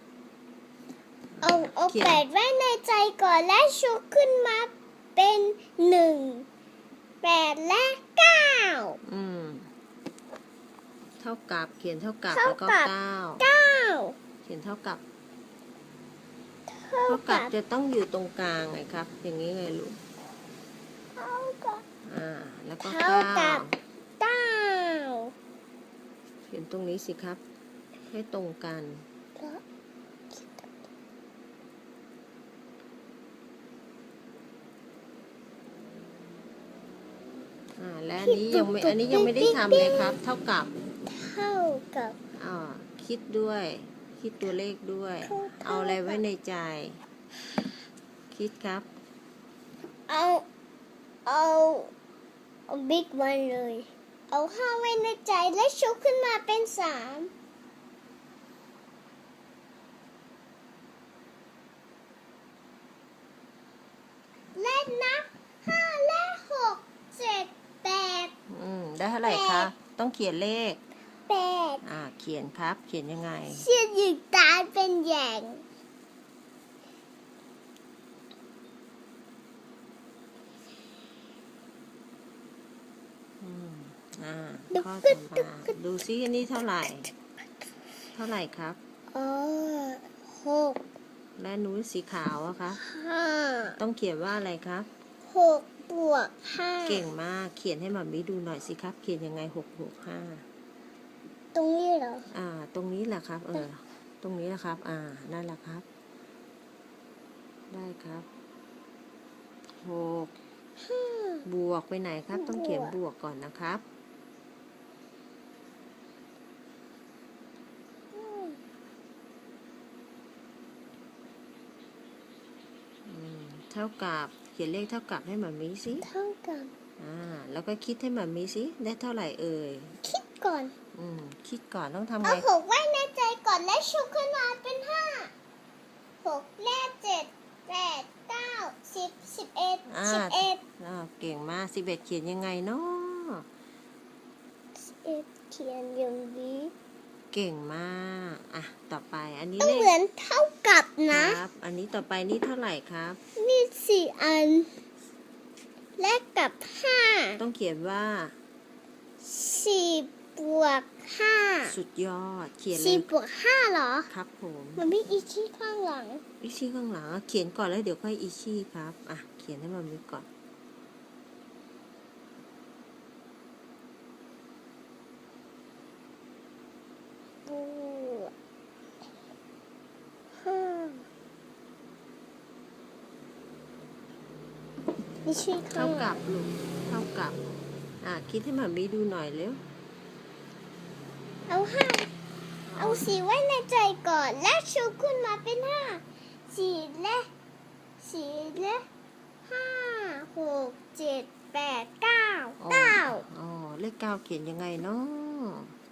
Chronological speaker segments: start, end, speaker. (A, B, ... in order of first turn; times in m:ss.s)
0:01.4-0:02.2 A
0:01.4-0:06.5 B
0:07.2-0:09.0 B
0:09.0-0:09.7 A
0:11.2-0:13.4 A
0:12.3-0:14.2 B
0:14.4-0:15.0 A
0:16.7-0:17.5 B
0:17.1-0:20.0 A
0:21.2-0:21.8 B
0:22.0-0:23.8 A
0:22.8-0:23.7 B
0:24.2-0:25.3 B
0:26.5-0:27.4 A
0:28.1-0:29.0 A
0:30.3-0:30.7 B
0:37.8-0:40.7 A
0:38.2-0:40.2 B
0:41.0-0:42.2 B
0:42.3-0:47.0 A
0:45.2-0:46.2 B
0:48.3-0:48.9 A
0:50.1-0:50.4 B
0:51.3-0:51.9 B
0:52.7-0:57.3 B
1:04.6-1:08.3 B
1:08.5-1:10.8 A
1:09.2-1:09.7 B
1:11.3-1:11.8 B
1:11.8-1:13.7 A
1:13.5-1:15.6 B
1:23.4-1:27.1 A
1:24.7-1:25.7 B
1:28.1-1:28.8 A
1:29.1-1:30.8 B
1:31.4-1:32.8 A
1:32.8-1:33.8 B
1:33.8-1:34.9 A
1:35.2-1:37.0 B
1:36.8-1:40.4 A
1:41.5-1:42.2 B
1:42.3-1:45.8 A
1:47.7-1:48.3 A
1:49.8-1:50.4 A
1:50.8-1:51.4 B
1:51.4-1:53.8 A
1:52.3-1:53.0 B
1:58.1-1:58.6 B
2:03.0-2:06.1 A
2:06.0-2:06.7 B
2:07.0-2:10.0 A
2:10.0-2:10.7 B
2:10.9-2:12.5 A
2:12.2-2:15.3 B
2:16.2-2:20.6 B
2:19.9-2:23.5 A
2:24.8-2:26.7 B
2:27.3-2:29.9 A
2:29.6-2:31.4 B
2:31.1-2:33.2 A
2:33.4-2:34.7 B
2:36.0-2:37.4 B
2:37.4-2:38.3 A
2:39.2-2:41.8 B
2:41.7-2:43.1 A
2:42.7-2:44.1 B
2:44.1-2:44.8 A
2:44.8-2:46.2 B
2:46.4-2:50.3 A
2:57.5-2:58.3 B
3:00.4-3:01.1 B
3:05.2-3:06.2 B
3:05.7-3:07.4 A
3:08.0-3:09.6 A
3:11.5-3:12.1 B
3:12.7-3:13.1 A
3:12.8-3:17.3 B
3:18.0-3:18.8 B
3:19.5-3:23.2 B
3:22.6-3:25.7 A